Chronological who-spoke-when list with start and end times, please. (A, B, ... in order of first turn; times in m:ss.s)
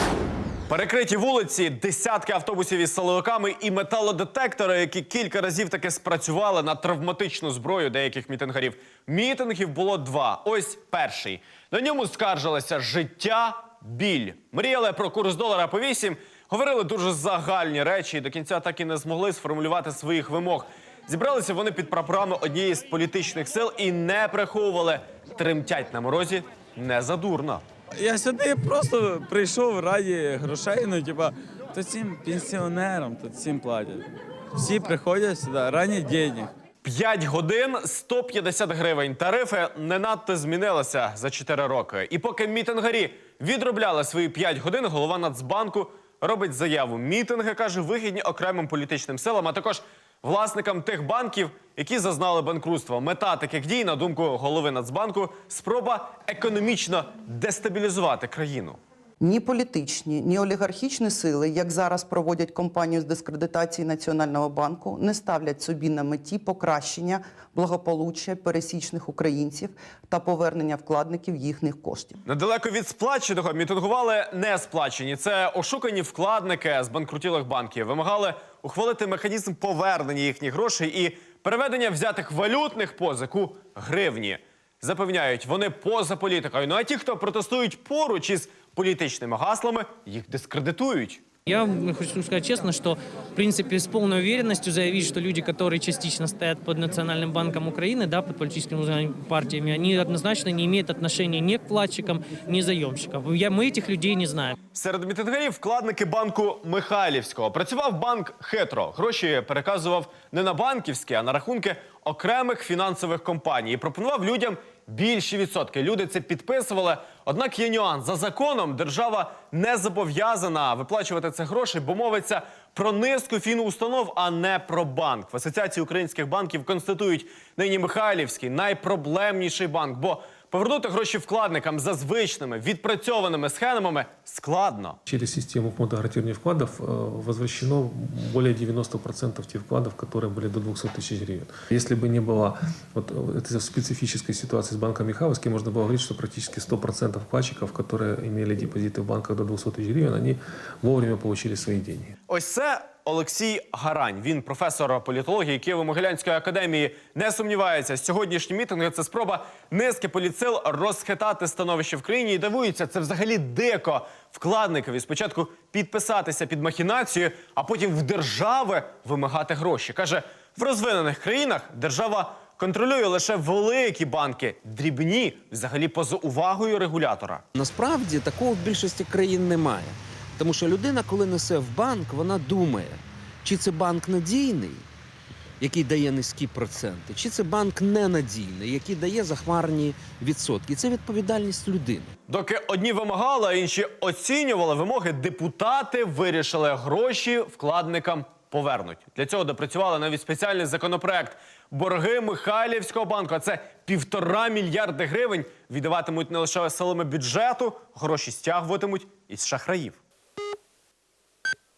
0:00.7-0:27.6 A
0:27.9-0:36.5 B
0:36.8-0:58.8 A
0:59.2-1:12.2 C
1:12.2-1:31.2 A
1:31.5-1:44.5 D
1:44.7-2:15.0 A
2:15.1-2:32.1 E
2:32.3-2:57.4 A
2:57.6-3:04.8 F
3:05.6-3:12.1 F
3:12.3-3:30.0 A